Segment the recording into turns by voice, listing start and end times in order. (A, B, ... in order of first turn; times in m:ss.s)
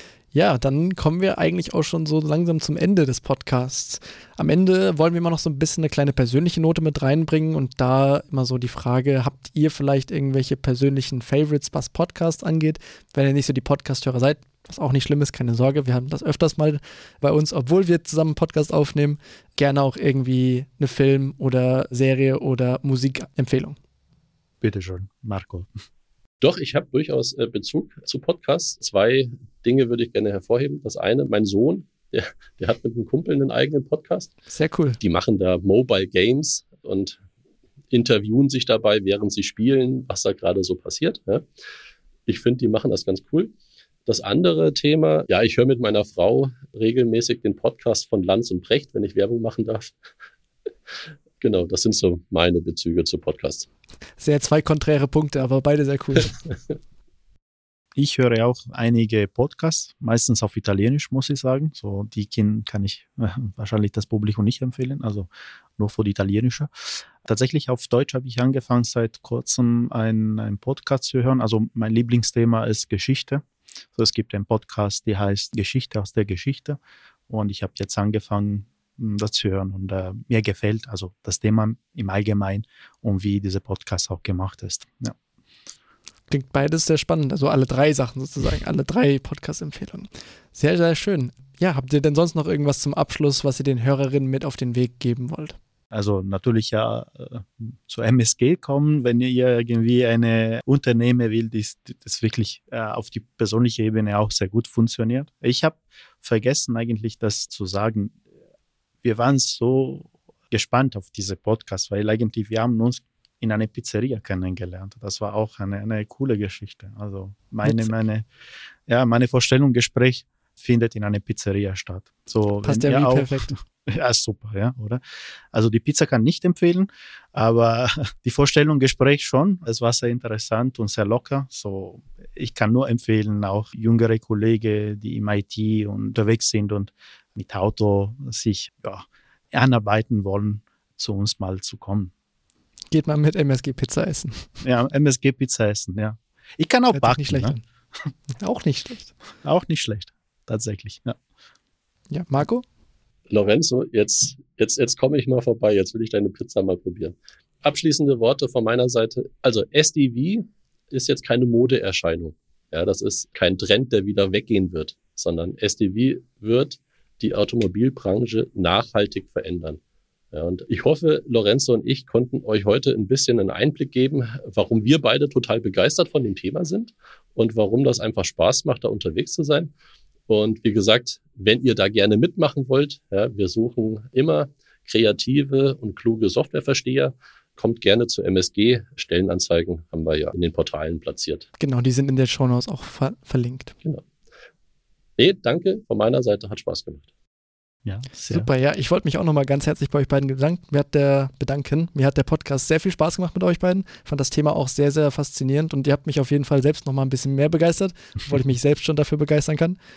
0:00.3-0:23.8 A
0:24.6-0:25.7 B
0:26.4-0:34.3 C
0:34.5-0:35.0 A
0:35.0-0:37.2 C
0:37.9-0:41.4 C
0:42.3-0:43.5 C
0:44.1-0:50.0 C
0:51.4-0:53.7 C
0:54.2-0:56.4 A
0:58.0-1:13.4 B
1:14.0-1:25.2 B
1:26.3-1:35.6 A
1:35.9-1:48.2 B
1:49.0-1:58.3 B
1:57.6-1:57.9 A
1:58.9-2:05.0 B
2:02.6-2:03.5 A
2:05.5-2:22.1 B
2:22.9-2:24.5 A
2:24.6-2:27.6 B
2:26.9-2:27.6 A
2:28.4-2:29.1 A
2:29.4-2:31.2 B
2:32.1-2:32.6 A
2:33.3-2:49.8 C
2:50.3-2:59.7 C
3:00.3-3:11.5 C
3:11.6-3:13.8 A
3:15.2-3:17.1 C
3:17.8-3:18.5 B
3:18.3-3:29.8 A